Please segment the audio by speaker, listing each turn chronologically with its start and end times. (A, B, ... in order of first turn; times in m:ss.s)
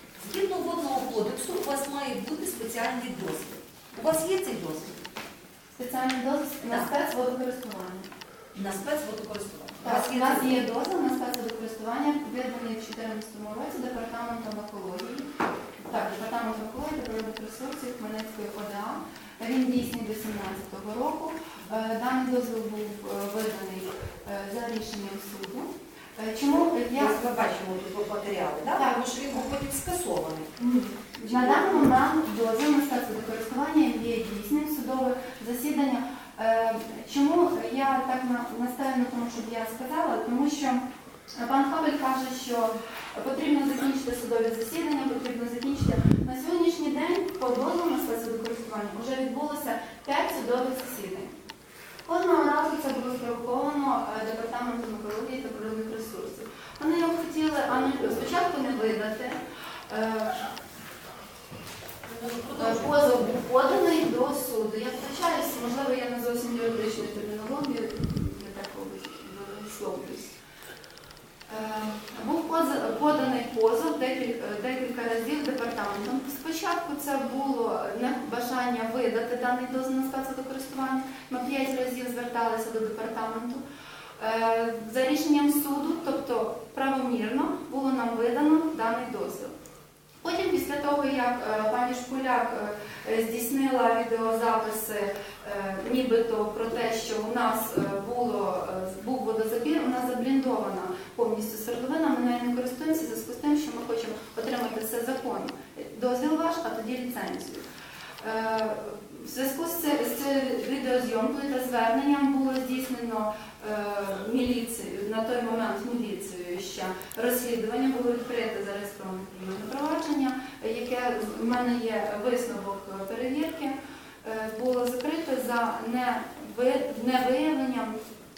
0:00.2-0:05.0 A
0:05.7-0:08.1 B
0:08.5-0:10.6 A
0:09.8-0:15.3 B
0:15.8-0:27.2 B
0:26.4-0:30.5 A
0:28.7-0:29.4 B
0:30.6-0:40.8 B
0:31.2-0:32.0 A
0:41.4-0:51.3 B
0:52.0-1:00.5 B
1:02.0-1:03.4 A
1:02.6-1:10.3 B
1:11.5-1:23.6 B
1:24.2-1:29.5 B
1:30.2-1:47.7 B
1:48.2-2:08.0 B